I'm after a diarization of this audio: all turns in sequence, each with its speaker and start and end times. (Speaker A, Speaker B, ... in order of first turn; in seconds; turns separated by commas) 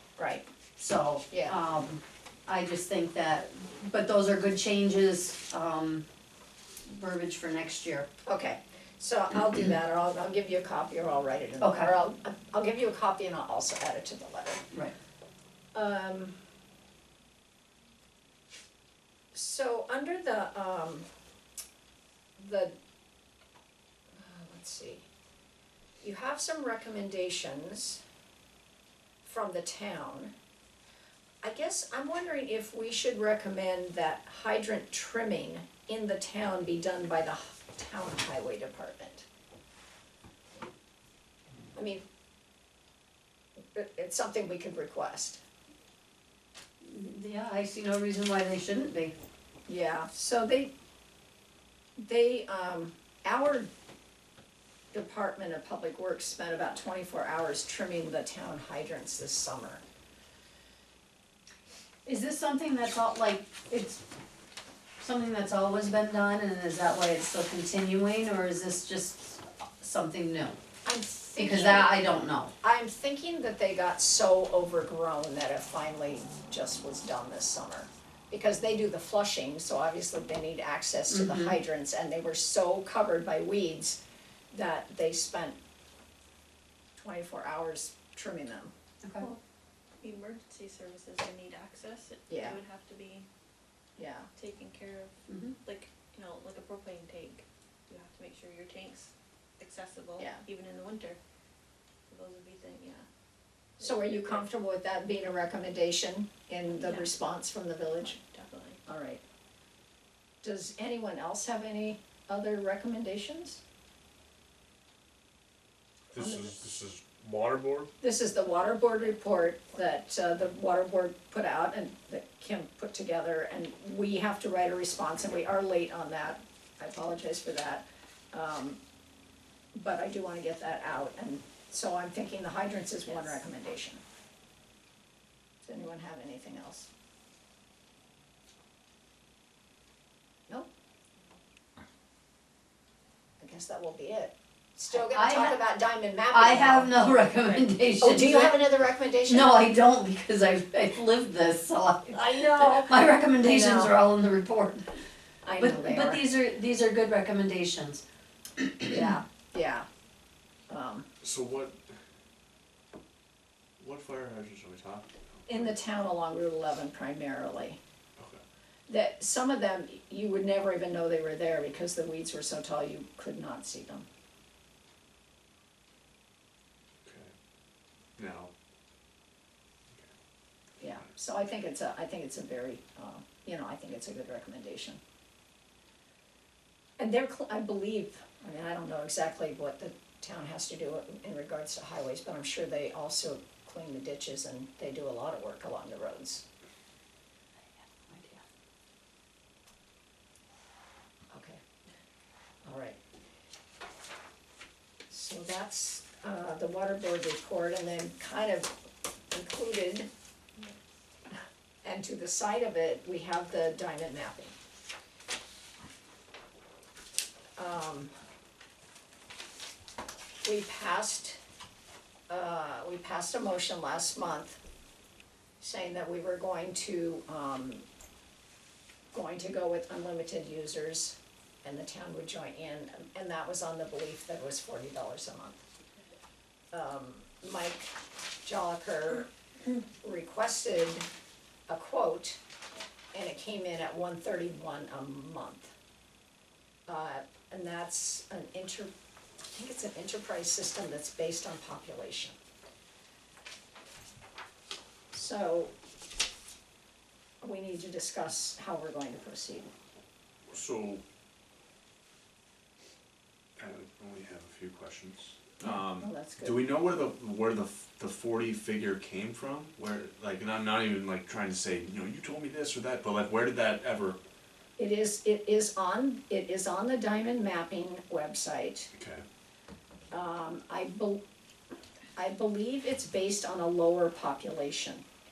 Speaker A: 0.2-0.5, Speaker B: 0.8-6.0, Speaker A: 1.3-1.6, Speaker B: 6.8-8.1, Speaker A: 8.2-14.6, Speaker B: 11.6-11.9, Speaker A: 15.7-16.3, Speaker A: 19.3-21.1, Speaker A: 22.4-22.8, Speaker A: 24.1-25.1, Speaker A: 26.0-28.0, Speaker A: 29.2-30.3, Speaker A: 31.4-39.2, Speaker A: 41.8-42.0, Speaker A: 43.8-45.4, Speaker B: 46.8-49.2, Speaker A: 49.7-50.7, Speaker A: 52.0-53.7, Speaker A: 54.9-59.8, Speaker B: 62.0-64.0, Speaker B: 65.0-70.6, Speaker A: 70.8-72.0, Speaker B: 71.3-72.5, Speaker A: 72.6-84.0, Speaker B: 81.1-81.6, Speaker A: 84.5-85.6, Speaker A: 87.0-88.7, Speaker C: 90.0-93.2, Speaker A: 92.3-92.6, Speaker A: 94.0-94.3, Speaker C: 94.3-101.2, Speaker B: 95.3-95.5, Speaker C: 102.1-103.0, Speaker C: 103.8-104.4, Speaker A: 103.8-108.2, Speaker C: 106.8-107.1, Speaker C: 108.0-108.8, Speaker A: 108.8-109.2, Speaker A: 110.4-113.6, Speaker D: 116.1-117.9, Speaker A: 116.1-116.6, Speaker A: 118.0-128.8, Speaker A: 129.7-134.0, Speaker A: 135.6-136.9, Speaker A: 143.4-147.1, Speaker B: 144.9-145.6, Speaker B: 146.3-148.7, Speaker A: 148.0-149.6, Speaker B: 149.2-154.8, Speaker A: 152.1-154.0, Speaker A: 155.4-156.2, Speaker B: 155.6-158.0, Speaker A: 158.8-159.9, Speaker A: 160.7-161.1, Speaker D: 161.2-161.9, Speaker D: 163.8-165.7, Speaker A: 165.5-167.8, Speaker D: 168.2-168.4, Speaker A: 168.9-174.1, Speaker D: 177.0-177.3, Speaker D: 178.2-178.5, Speaker A: 180.8-185.0, Speaker A: 187.0-196.4, Speaker B: 197.7-198.4, Speaker A: 201.3-201.6, Speaker A: 202.6-203.0, Speaker A: 205.1-208.7, Speaker A: 209.3-210.1, Speaker A: 211.8-214.5, Speaker A: 217.6-218.1, Speaker A: 220.4-221.4, Speaker A: 222.3-224.6, Speaker A: 225.6-227.9, Speaker A: 229.1-235.6, Speaker A: 236.7-237.9, Speaker A: 238.4-239.3, Speaker A: 240.0-241.1, Speaker A: 241.7-242.4, Speaker A: 243.1-245.7, Speaker A: 246.9-248.9, Speaker A: 249.5-252.3, Speaker A: 255.1-255.7, Speaker A: 257.4-259.7, Speaker D: 260.5-261.0, Speaker D: 263.6-274.2, Speaker A: 265.6-266.7, Speaker A: 274.8-278.9, Speaker D: 278.9-279.2, Speaker A: 280.1-281.2, Speaker A: 282.2-285.0